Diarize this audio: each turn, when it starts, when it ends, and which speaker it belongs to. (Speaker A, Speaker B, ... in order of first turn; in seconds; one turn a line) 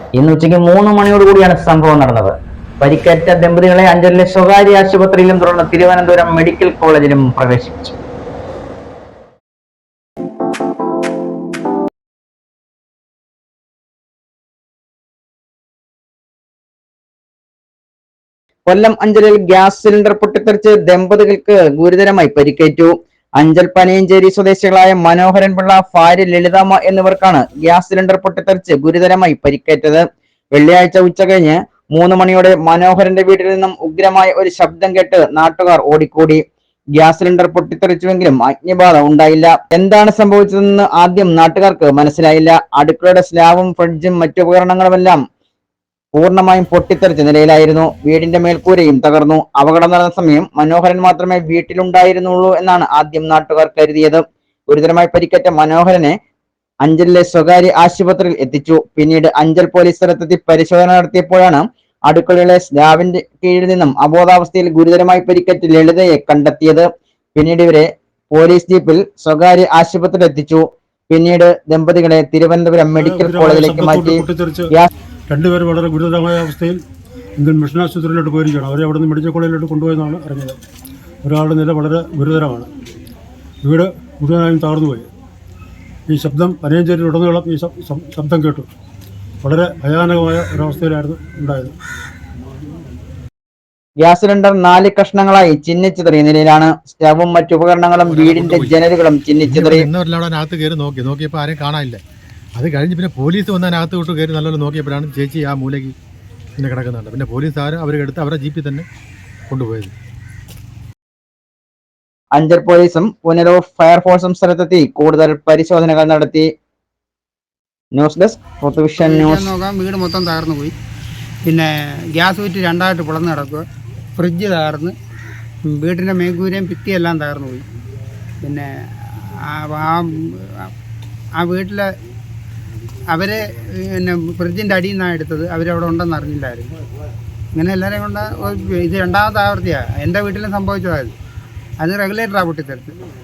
Speaker A: 0.2-8.0
Speaker A: 18.6-36.4
Speaker A: 37.0-45.2
Speaker A: 46.1-56.1
Speaker A: 56.8-74.9
Speaker B: 73.0-74.7
Speaker B: 75.3-76.8
Speaker B: 77.4-80.6
Speaker B: 81.2-82.7
Speaker B: 83.6-85.1
Speaker B: 86.1-88.7
Speaker B: 89.4-91.7
Speaker A: 94.0-99.8
Speaker C: 98.1-98.7
Speaker C: 99.5-102.0
Speaker C: 102.6-105.9
Speaker C: 106.6-108.8
Speaker C: 109.5-109.9
Speaker A: 112.3-116.5
Speaker A: 117.9-119.5
Speaker D: 119.0-120.7
Speaker D: 121.5-123.6
Speaker D: 124.2-124.9
Speaker D: 125.7-127.6
Speaker D: 128.4-130.7
Speaker D: 131.4-131.8
Speaker D: 133.1-136.8
Speaker D: 137.5-141.1
Speaker D: 141.8-143.0